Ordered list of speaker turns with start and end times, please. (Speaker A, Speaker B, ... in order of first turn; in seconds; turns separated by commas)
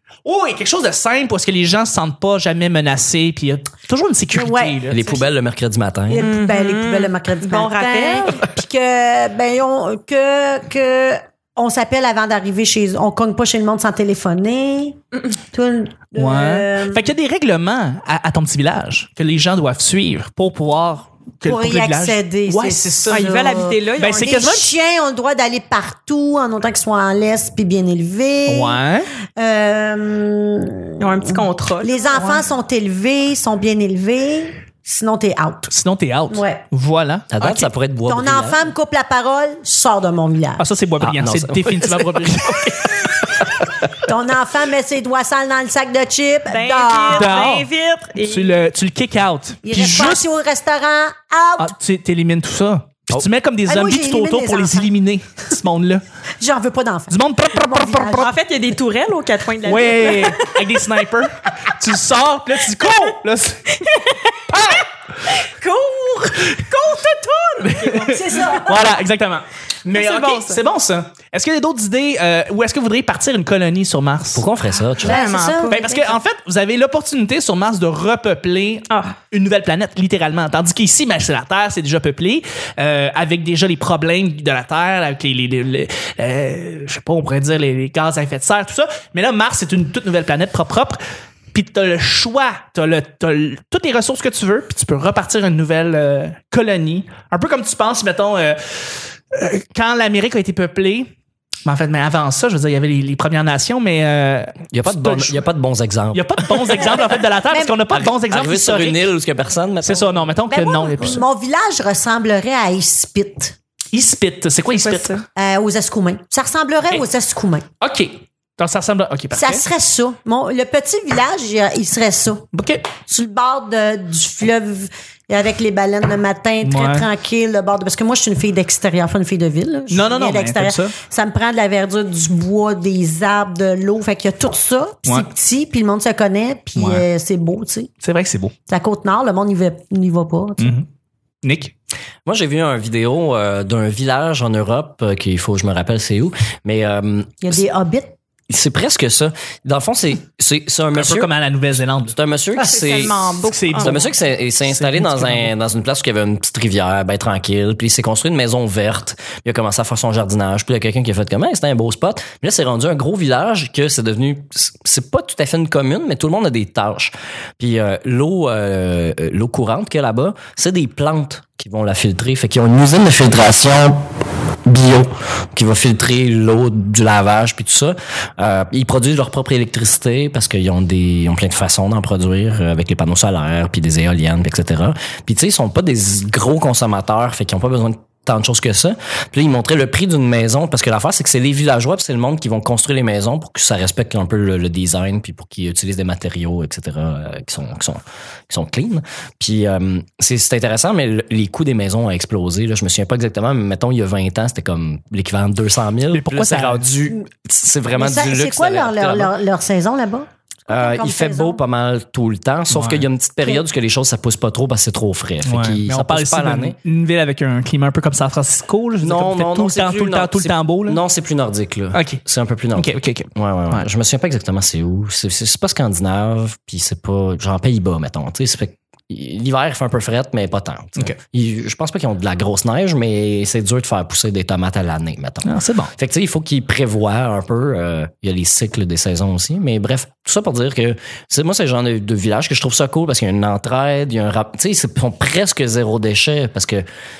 Speaker A: 0.2-5.1, Speaker B: 4.3-5.2, Speaker C: 4.9-6.3, Speaker B: 6.1-17.1, Speaker D: 6.2-8.4, Speaker A: 16.1-24.7, Speaker B: 21.4-28.8, Speaker D: 23.1-24.5, Speaker A: 28.5-29.1, Speaker B: 29.4-35.7, Speaker D: 31.0-32.4, Speaker A: 32.1-32.4, Speaker A: 35.7-37.7, Speaker B: 36.3-36.6, Speaker C: 37.3-38.7, Speaker B: 38.1-40.6, Speaker A: 40.6-43.5, Speaker C: 41.0-42.8, Speaker B: 44.0-47.5, Speaker D: 46.5-48.6, Speaker A: 47.1-50.2, Speaker B: 49.6-51.7, Speaker A: 51.6-56.0, Speaker B: 53.6-54.9, Speaker B: 56.4-58.3, Speaker A: 57.1-58.3, Speaker D: 58.2-60.5, Speaker A: 59.6-63.8, Speaker D: 63.8-68.6, Speaker A: 64.5-64.9, Speaker A: 67.6-74.5, Speaker B: 68.1-68.9, Speaker D: 69.9-70.6, Speaker C: 74.3-75.2, Speaker D: 74.9-76.2, Speaker B: 75.0-75.9, Speaker A: 75.7-91.0, Speaker D: 78.9-79.2, Speaker A: 91.5-101.1, Speaker A: 101.6-105.4, Speaker C: 104.7-106.9, Speaker A: 106.1-109.0, Speaker B: 107.5-107.8, Speaker C: 107.9-110.2, Speaker A: 109.8-111.2, Speaker B: 110.5-113.5, Speaker A: 113.9-115.2, Speaker D: 114.7-115.2, Speaker B: 115.4-117.7, Speaker A: 117.8-119.6, Speaker B: 119.3-122.5, Speaker A: 122.5-122.9, Speaker B: 123.0-137.9, Speaker A: 126.6-127.1, Speaker A: 129.9-130.9, Speaker A: 136.8-137.1, Speaker A: 138.0-138.5, Speaker B: 138.7-140.8, Speaker A: 140.6-140.9, Speaker A: 141.4-141.7, Speaker C: 142.2-147.6, Speaker B: 147.4-148.2, Speaker C: 148.5-151.3, Speaker A: 150.9-152.2, Speaker C: 152.1-174.0, Speaker D: 152.6-154.1, Speaker A: 153.4-155.5, Speaker C: 174.6-209.3, Speaker A: 206.1-206.9, Speaker B: 207.9-211.6, Speaker C: 210.7-216.8, Speaker A: 212.7-213.1, Speaker A: 215.4-221.0, Speaker C: 219.0-246.8, Speaker A: 221.9-222.2, Speaker A: 222.7-223.9, Speaker A: 235.4-235.9